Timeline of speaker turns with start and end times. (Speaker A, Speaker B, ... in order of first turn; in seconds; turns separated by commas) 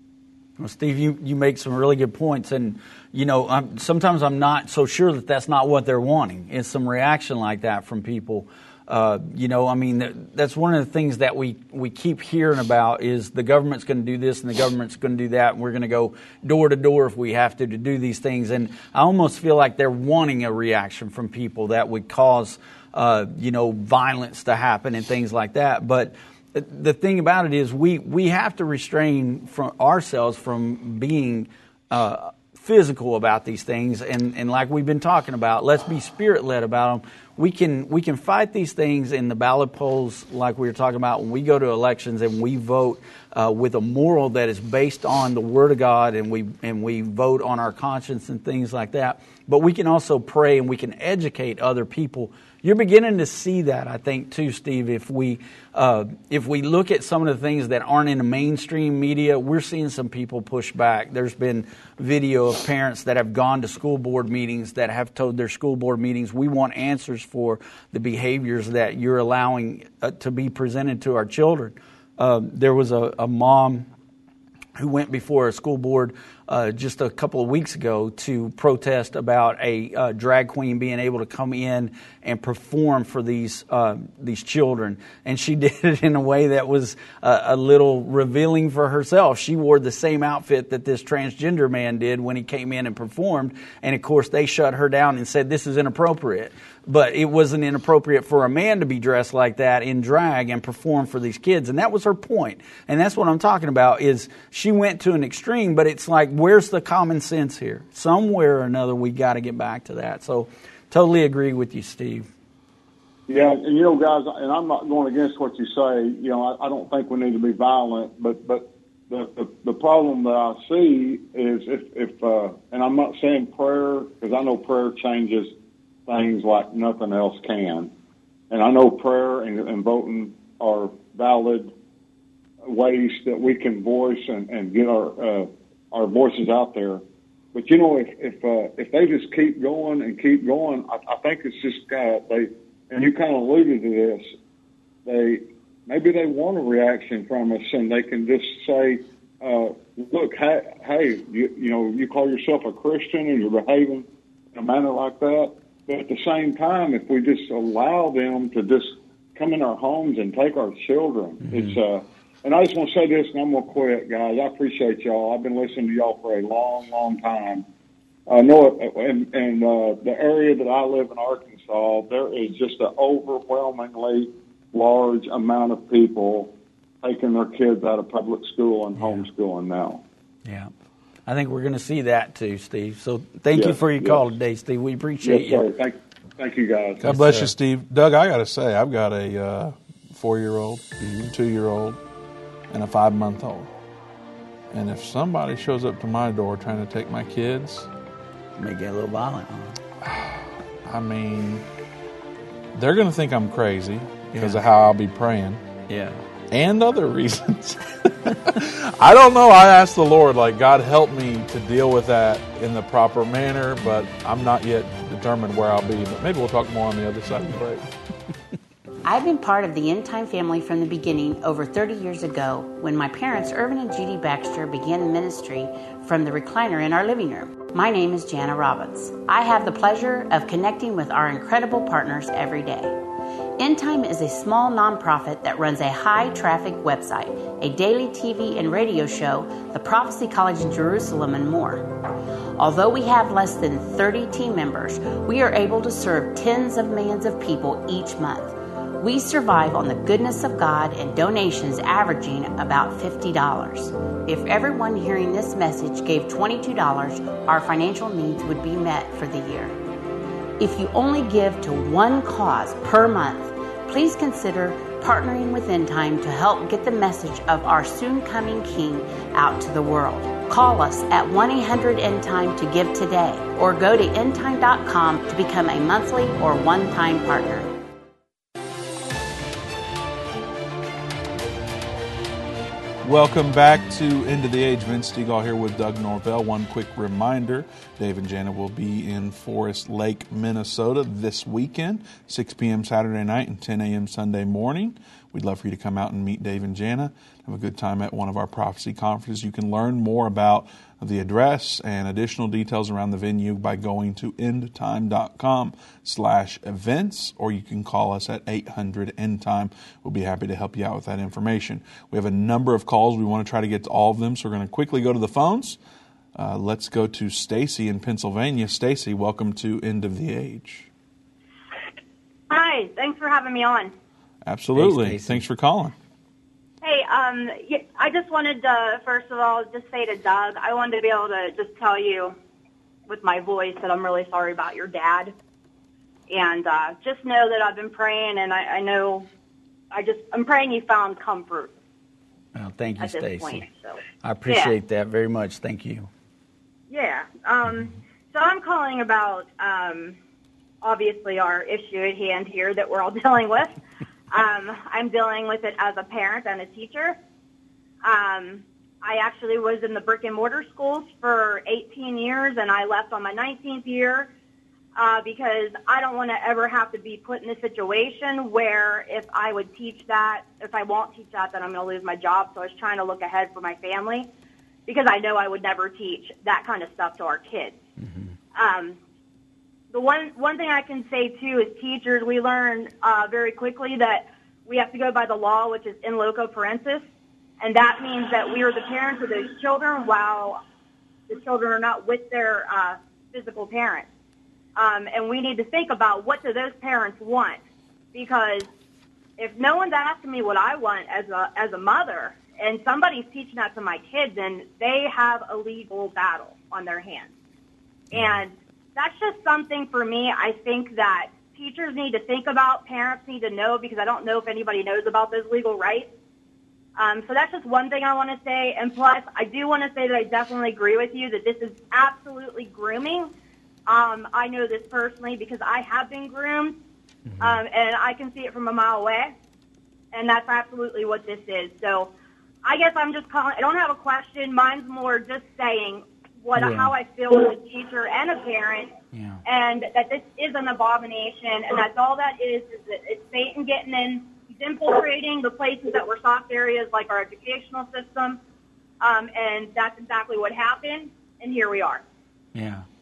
Speaker A: 0.6-73.9, Speaker A: 74.8-112.3, Speaker B: 113.3-125.5, Speaker B: 126.1-127.9, Speaker B: 128.5-131.7, Speaker B: 132.7-137.0, Speaker B: 137.5-144.3, Speaker B: 145.1-167.6, Speaker A: 161.4-161.8, Speaker B: 168.3-180.0, Speaker A: 179.0-179.2, Speaker A: 180.4-180.7, Speaker A: 181.2-185.6, Speaker B: 183.5-184.3, Speaker B: 185.2-187.0, Speaker C: 187.0-192.0, Speaker A: 187.0-187.5, Speaker A: 191.0-191.3, Speaker C: 192.7-193.7, Speaker C: 194.7-197.9, Speaker A: 198.6-199.8, Speaker C: 200.0-201.7, Speaker C: 202.7-205.6, Speaker A: 204.3-204.6, Speaker A: 205.9-206.2, Speaker C: 206.5-217.8, Speaker D: 219.0-232.9, Speaker D: 233.6-241.9, Speaker D: 242.6-259.7, Speaker D: 260.6-277.7, Speaker C: 283.0-315.8, Speaker C: 316.3-320.9, Speaker E: 322.5-323.9, Speaker C: 324.4-325.9, Speaker A: 324.7-325.4, Speaker E: 326.8-332.4, Speaker E: 333.1-335.3, Speaker E: 336.3-339.3, Speaker E: 339.9-341.7, Speaker A: 342.5-343.6, Speaker E: 343.0-344.7, Speaker A: 344.2-346.1, Speaker E: 346.9-350.2, Speaker E: 350.8-353.8, Speaker E: 354.3-357.2, Speaker E: 358.0-364.3, Speaker E: 364.9-374.3, Speaker E: 374.9-377.8, Speaker A: 378.0-378.3, Speaker E: 378.5-379.0, Speaker E: 379.9-387.0, Speaker E: 387.6-390.6, Speaker E: 391.3-394.1, Speaker E: 394.8-397.6, Speaker E: 398.1-398.7, Speaker E: 399.4-407.3, Speaker E: 408.1-416.1, Speaker E: 417.0-423.3, Speaker E: 423.9-426.8, Speaker A: 427.3-427.6, Speaker E: 427.4-429.3, Speaker E: 430.1-432.1, Speaker E: 432.6-438.9, Speaker A: 436.6-436.9, Speaker A: 439.1-439.4, Speaker E: 439.4-448.4, Speaker E: 449.0-452.0, Speaker A: 452.5-452.8